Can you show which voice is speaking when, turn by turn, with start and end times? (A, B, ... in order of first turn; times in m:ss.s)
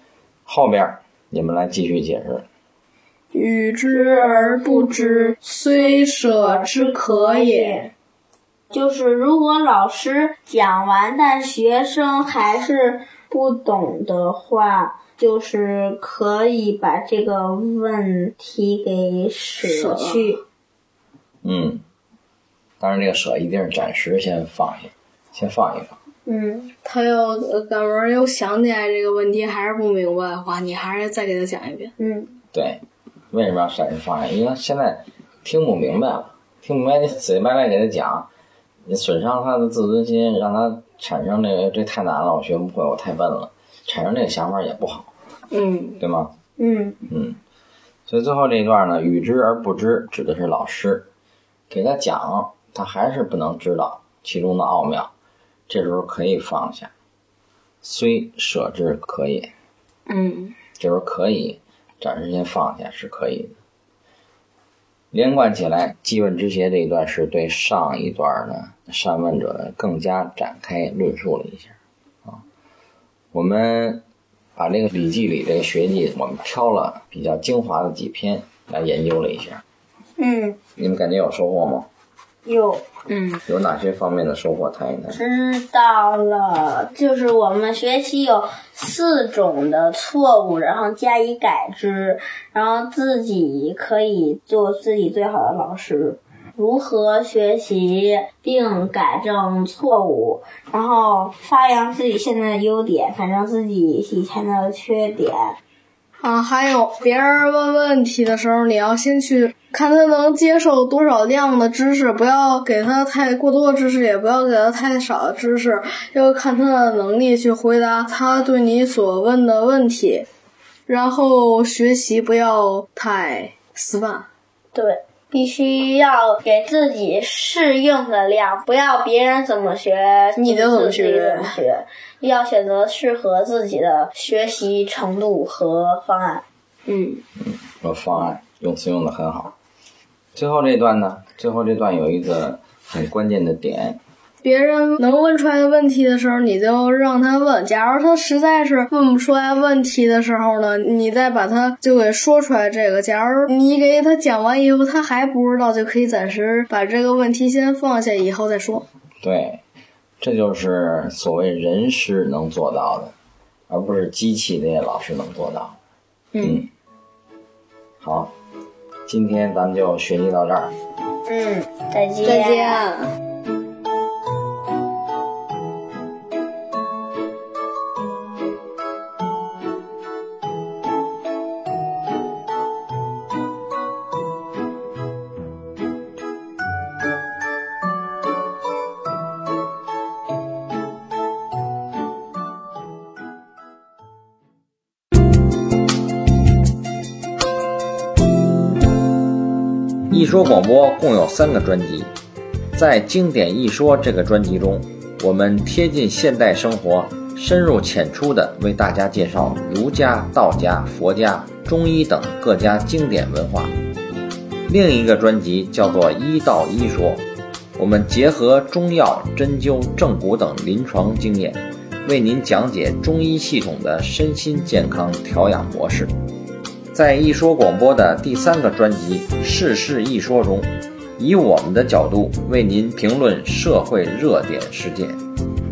0:00.5-0:02.5 A
0:03.3-0:07.8 B
0:03.9-0:05.4 C
0:06.1-0:07.9 C
0:08.7-0:20.4 C
0:19.6-0:20.4 B
0:21.4-0:21.8 A
0:22.8-0:26.0 A
0:26.3-0:26.7 C
0:26.8-0:31.9 B
0:32.0-0:32.3 C
0:32.5-0:38.3 A
0:38.9-0:45.1 A
0:45.5-0:46.0 B
0:46.0-0:46.3 A
0:46.6-0:47.0 C
0:47.1-0:47.4 A
0:48.1-0:51.1 A
0:51.7-0:55.1 A
0:55.7-0:56.9 A
0:57.8-0:59.5 A
1:00.1-1:00.6 B
1:00.8-1:03.6 A
1:05.1-1:11.8 A
1:13.3-1:14.0 A
1:14.6-1:19.6 A
1:20.2-1:20.6 C
1:20.8-1:21.9 A
1:22.5-1:22.8 C
1:23.1-1:23.4 B
1:23.5-1:25.2 A
1:25.1-1:45.6 C
1:46.2-2:00.3 B
2:00.9-2:04.3 B
2:04.7-2:16.4 C
2:10.4-2:11.6 B
2:16.9-2:17.2 B
2:17.4-2:19.6 A
2:20.4-2:24.0 A
2:24.4-2:38.9 B
2:39.2-2:39.6 A
2:40.2-2:43.1 A
2:43.7-2:45.8 A
2:46.3-2:46.6 B
2:46.4-2:46.7 A
2:48.0-2:48.3 A
2:49.1-2:50.8 A
2:51.3-2:52.8 C
2:52.2-2:53.1 B
3:20.1-3:22.1 A
3:22.7-3:33.7 A
3:34.7-3:37.2 A
3:37.8-3:46.1 A
3:46.9-3:55.2 A